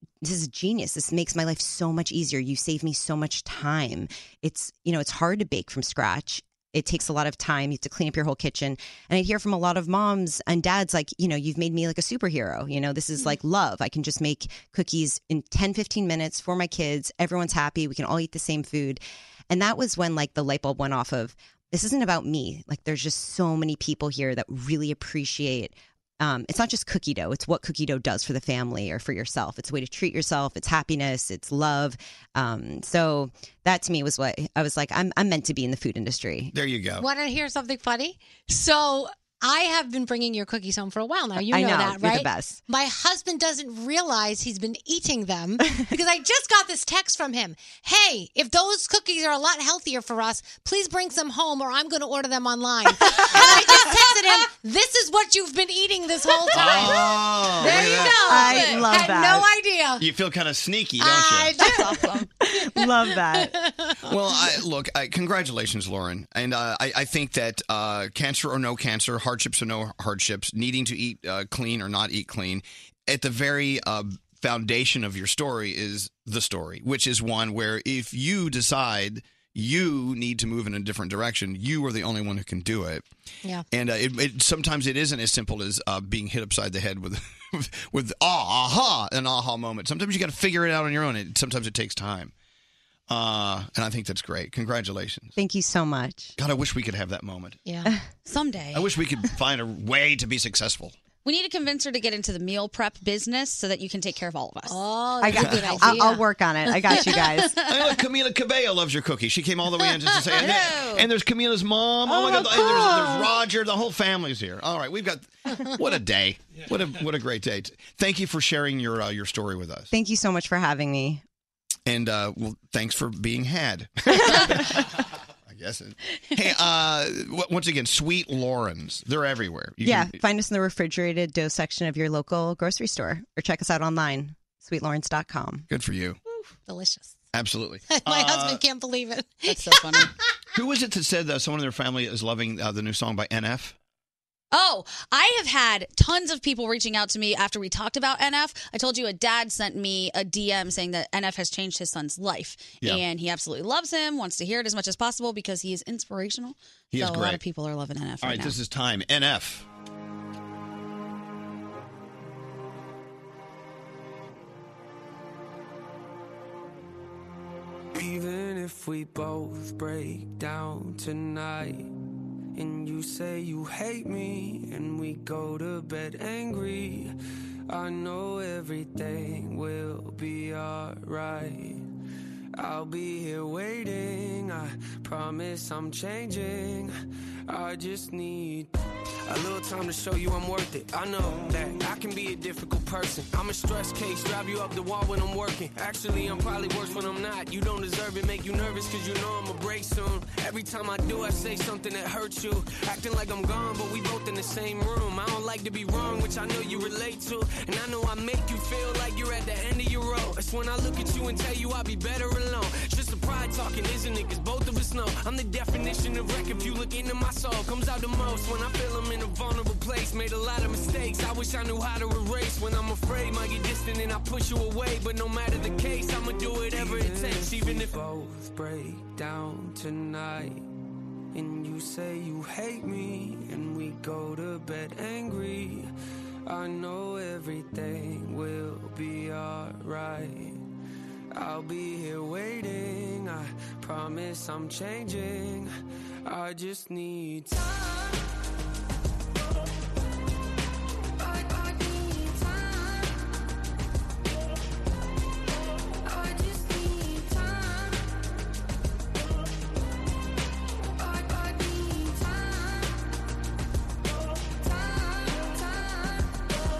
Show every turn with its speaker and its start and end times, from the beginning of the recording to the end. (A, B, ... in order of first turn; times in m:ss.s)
0:00.2-0:36.5 A
0:36.5-0:37.0 B
0:37.0-1:00.1 C
0:41.4-0:42.6 A
0:56.5-0:58.7 B
0:57.8-0:59.5 A
1:00.0-1:01.6 B
1:01.0-1:04.0 C
1:01.6-1:02.2 D
1:02.4-1:03.5 A
1:04.0-1:23.0 B
1:23.7-1:32.3 B
1:33.1-1:35.4 B
1:35.4-1:36.4 A
1:36.4-1:37.6 B
1:37.6-1:37.9 C
1:38.2-1:38.9 D
1:38.7-1:41.0 B
1:41.2-1:44.8 D
1:44.7-1:47.9 C
1:45.2-1:47.6 A
1:45.4-1:45.7 B
1:47.6-1:59.9 B
1:50.3-1:51.1 D
1:59.9-2:01.2 A
2:01.8-2:04.9 B
2:05.4-2:10.2 B
2:09.8-2:15.7 A
2:15.7-2:16.2 B
2:16.6-2:17.2 C
2:17.3-2:18.6 B
2:17.9-2:20.1 C
2:19.5-2:20.1 D
2:20.5-2:23.7 B
2:24.5-2:38.6 D
2:36.9-2:37.4 B
2:38.2-2:39.7 B
2:47.9-2:51.9 E
2:52.5-2:57.1 E
2:57.7-3:01.8 E
3:02.6-3:06.9 E
3:07.5-3:08.7 E
3:09.2-3:50.6 E
3:51.3-3:55.9 E
3:56.4-4:00.6 E
4:01.3-4:05.7 E
4:06.2-4:07.7 E